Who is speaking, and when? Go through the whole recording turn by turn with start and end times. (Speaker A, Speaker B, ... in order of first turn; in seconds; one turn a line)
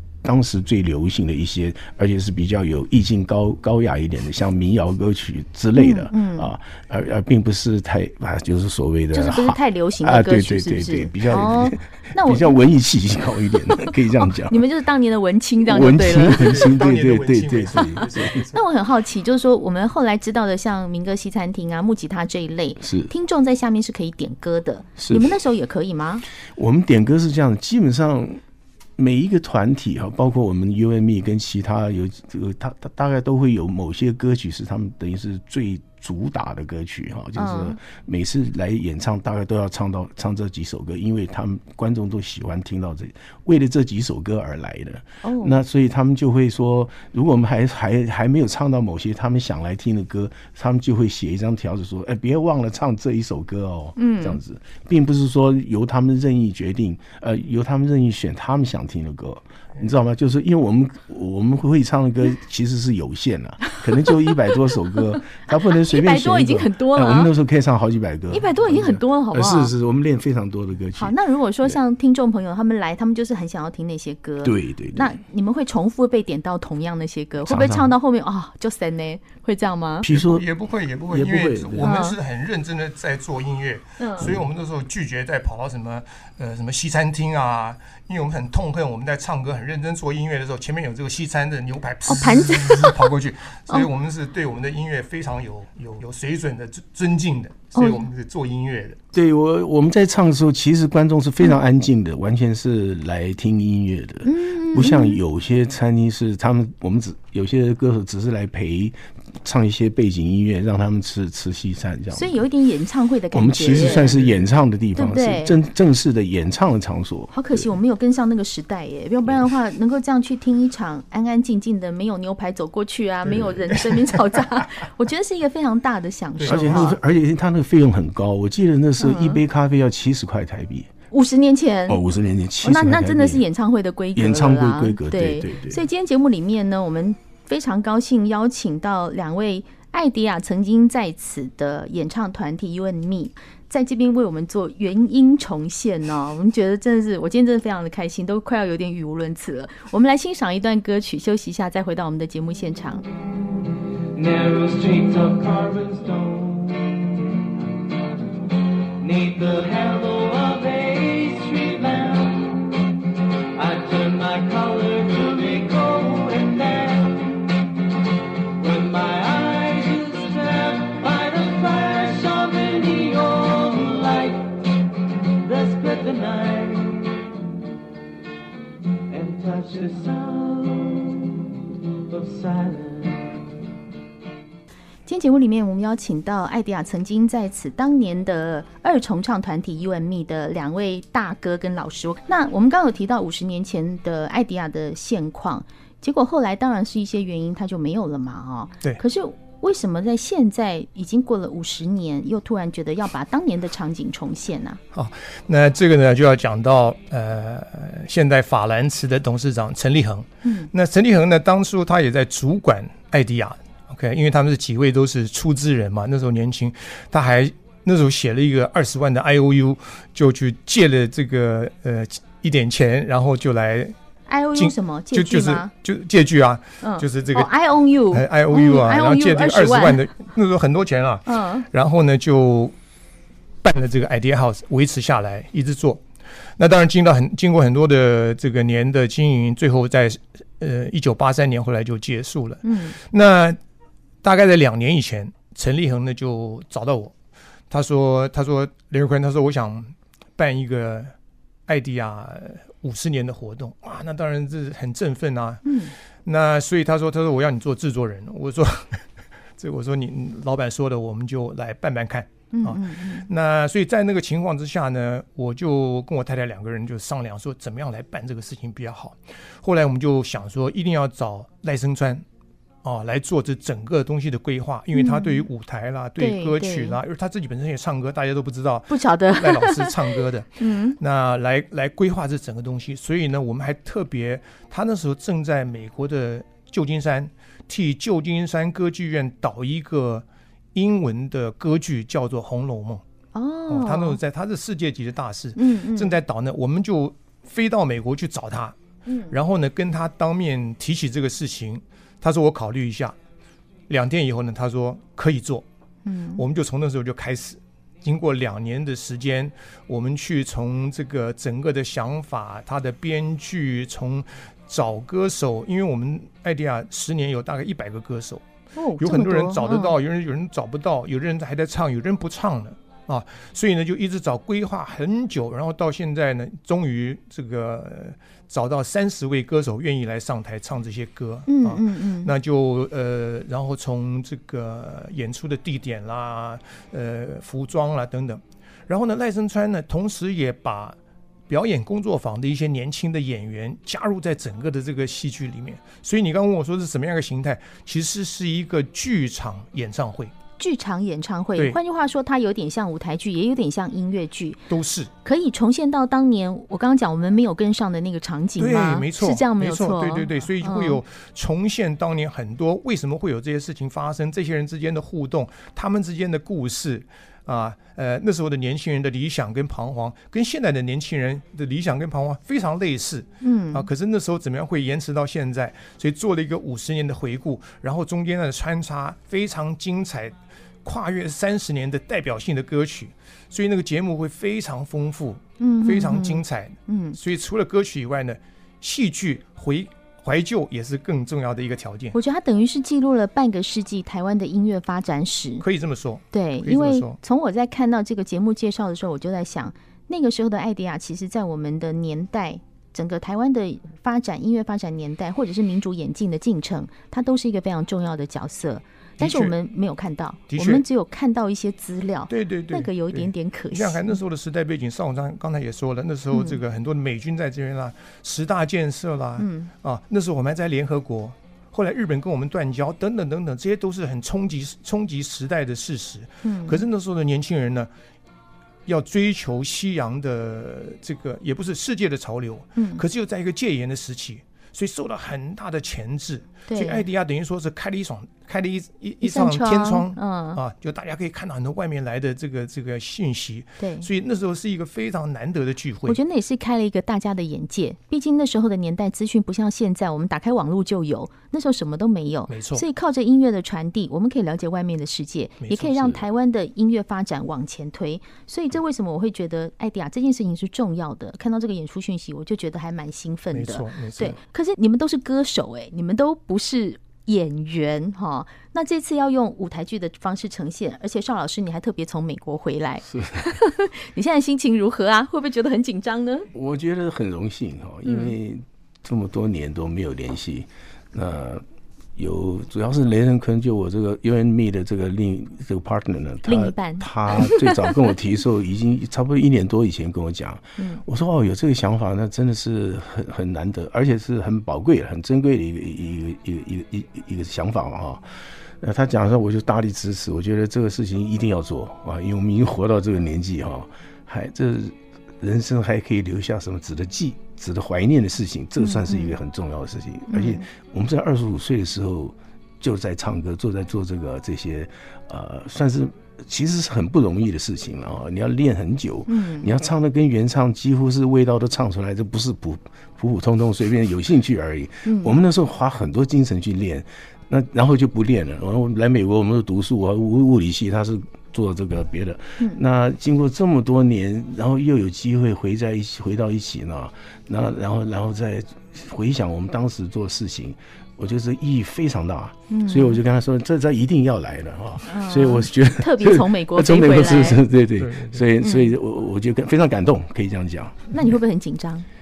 Speaker A: 0.2-14.6
Speaker B: 5.7-6.5
Speaker B: 9.1-12.6
Speaker B: 13.7-16.7
Speaker A: 15.6-18.5
Speaker C: 16.3-18.6
Speaker B: 18.0-26.2
Speaker A: 22.8-23.1
Speaker A: 25.0-25.3
Speaker A: 26.5-28.4
Speaker A: 29.0-71.2
Speaker B: 37.4-37.8
Speaker B: 45.2-45.6
Speaker B: 54.0-54.4
Speaker B: 64.0-64.4
Speaker B: 65.1-67.3
Speaker B: 68.3-69.7
Speaker B: 71.0-80.1
Speaker A: 74.4-75.2
Speaker A: 77.5-77.9
Speaker A: 80.0-80.4
Speaker C: 80.1-99.0
Speaker A: 81.1-82.0
Speaker B: 81.8-82.2
Speaker B: 84.0-84.3
Speaker A: 84.2-84.5
Speaker B: 92.1-93.1
Speaker B: 97.8-98.0
Speaker A: 99.1-112.4
Speaker B: 104.2-105.2
Speaker B: 112.1-114.1
Speaker A: 113.3-117.7
Speaker C: 113.7-114.4
Speaker B: 114.9-115.6
Speaker B: 117.3-127.0
Speaker C: 126.4-127.0
Speaker A: 126.5-130.9
Speaker B: 129.0-129.4
Speaker B: 131.1-132.0
Speaker A: 131.9-133.4
Speaker B: 132.6-153.0
Speaker A: 134.1-135.8
Speaker D: 154.1-157.1
Speaker D: 158.9-162.8
Speaker D: 163.5-167.3
Speaker D: 168.6-174.6
Speaker D: 175.4-177.3
Speaker D: 179.1-181.5
Speaker D: 182.1-183.5
Speaker B: 185.1-204.8
Speaker C: 204.9-223.9
Speaker B: 210.4-210.7
Speaker B: 224.2-225.7
Speaker C: 224.5-227.5
Speaker B: 226.8-230.0
Speaker C: 228.1-232.7
Speaker B: 231.3-231.7
Speaker C: 233.6-236.0
Speaker C: 236.6-243.6
Speaker B: 242.6-243.0
Speaker C: 244.2-247.1
Speaker C: 247.7-251.1
Speaker C: 251.7-255.6
Speaker B: 255.6-255.9
Speaker C: 256.2-259.0
Speaker C: 259.6-272.2
Speaker B: 262.5-263.3
Speaker C: 272.8-293.0
Speaker B: 274.9-275.5
Speaker B: 276.2-277.0
Speaker B: 278.9-281.0
Speaker B: 293.3-294.2
Speaker C: 293.7-298.8
Speaker B: 295.6-296.2
Speaker B: 299.1-299.4
Speaker C: 299.3-303.1
Speaker C: 303.9-305.6
Speaker B: 306.0-306.4
Speaker C: 306.4-318.4
Speaker B: 318.8-319.9
Speaker C: 319.0-341.0
Speaker B: 331.5-332.3
Speaker C: 341.5-350.3
Speaker B: 350.6-354.6
Speaker C: 354.7-355.1
Speaker B: 355.2-361.0
Speaker C: 358.6-392.1
Speaker B: 373.4-373.9
Speaker B: 385.6-387.2
Speaker B: 392.1-395.6
Speaker C: 395.6-397.2
Speaker B: 396.3-414.2
Speaker C: 409.2-409.5
Speaker C: 410.5-410.8
Speaker C: 412.3-427.9
Speaker B: 416.3-416.6
Speaker B: 419.4-419.7
Speaker B: 426.4-426.9
Speaker C: 428.9-446.2
Speaker B: 432.8-433.0
Speaker B: 436.7-437.1
Speaker B: 439.2-440.6
Speaker B: 443.8-444.1
Speaker B: 446.1-476.5
Speaker C: 452.5-452.8
Speaker C: 455.6-456.2
Speaker C: 463.5-464.4
Speaker A: 473.1-473.4
Speaker A: 476.5-481.6
Speaker B: 478.0-478.3
Speaker A: 482.1-551.1
Speaker B: 486.4-488.0
Speaker B: 490.8-491.0
Speaker B: 508.8-509.4
Speaker B: 510.3-510.7
Speaker B: 519.3-519.7
Speaker B: 525.0-525.4
Speaker B: 542.7-543.2
Speaker B: 545.1-547.6
Speaker C: 548.0-548.4
Speaker B: 548.6-548.9
Speaker B: 551.1-552.0